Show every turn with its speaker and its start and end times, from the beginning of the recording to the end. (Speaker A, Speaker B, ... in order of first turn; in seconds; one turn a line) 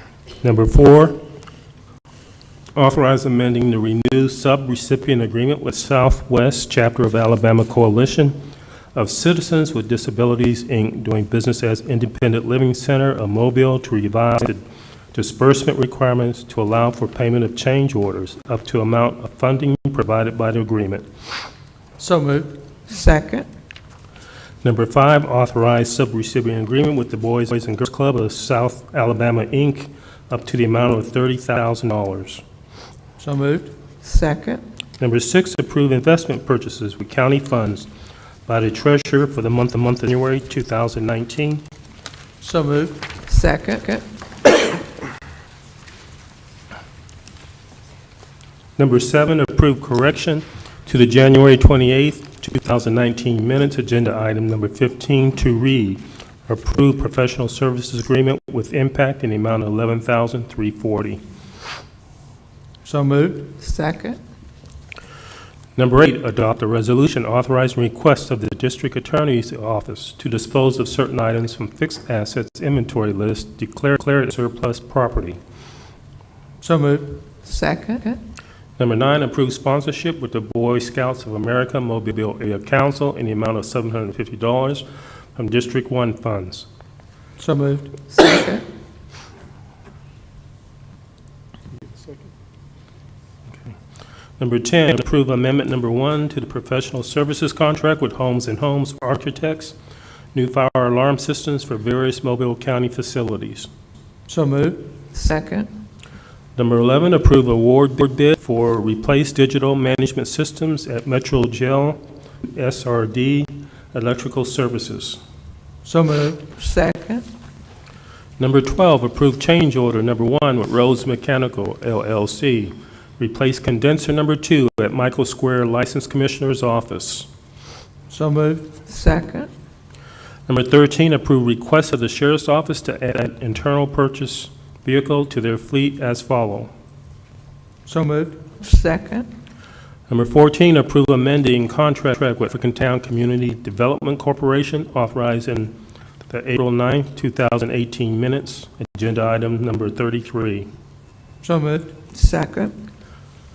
Speaker A: 0.4-1.2
Speaker A: 2.8-8.4
Speaker A: 8.9-14.6
Speaker A: 15.1-21.1
Speaker B: 22.0-22.6
Speaker C: 22.9-23.5
Speaker A: 24.6-32.4
Speaker B: 33.2-33.7
Speaker C: 34.0-34.6
Speaker A: 35.0-37.9
Speaker A: 38.5-41.6
Speaker B: 42.4-43.1
Speaker C: 43.3-44.0
Speaker A: 48.8-61.2
Speaker B: 62.9-63.6
Speaker C: 63.6-64.2
Speaker A: 65.8-75.4
Speaker B: 76.6-77.2
Speaker C: 77.5-78.2
Speaker A: 78.8-84.8
Speaker A: 85.4-86.7
Speaker B: 87.4-87.9
Speaker C: 88.1-88.6
Speaker B: 91.9-92.2
Speaker A: 94.4-99.8
Speaker A: 100.3-103.7
Speaker B: 104.3-104.9
Speaker C: 105.1-105.7
Speaker A: 106.6-115.2
Speaker B: 115.8-116.5
Speaker C: 116.6-117.2
Speaker A: 118.4-127.3
Speaker B: 128.1-128.8
Speaker C: 128.9-129.5
Speaker A: 130.5-136.7
Speaker B: 137.9-138.4
Speaker C: 138.6-139.3
Speaker A: 140.1-145.8
Speaker A: 146.3-150.7
Speaker B: 151.4-152.0
Speaker C: 152.1-152.7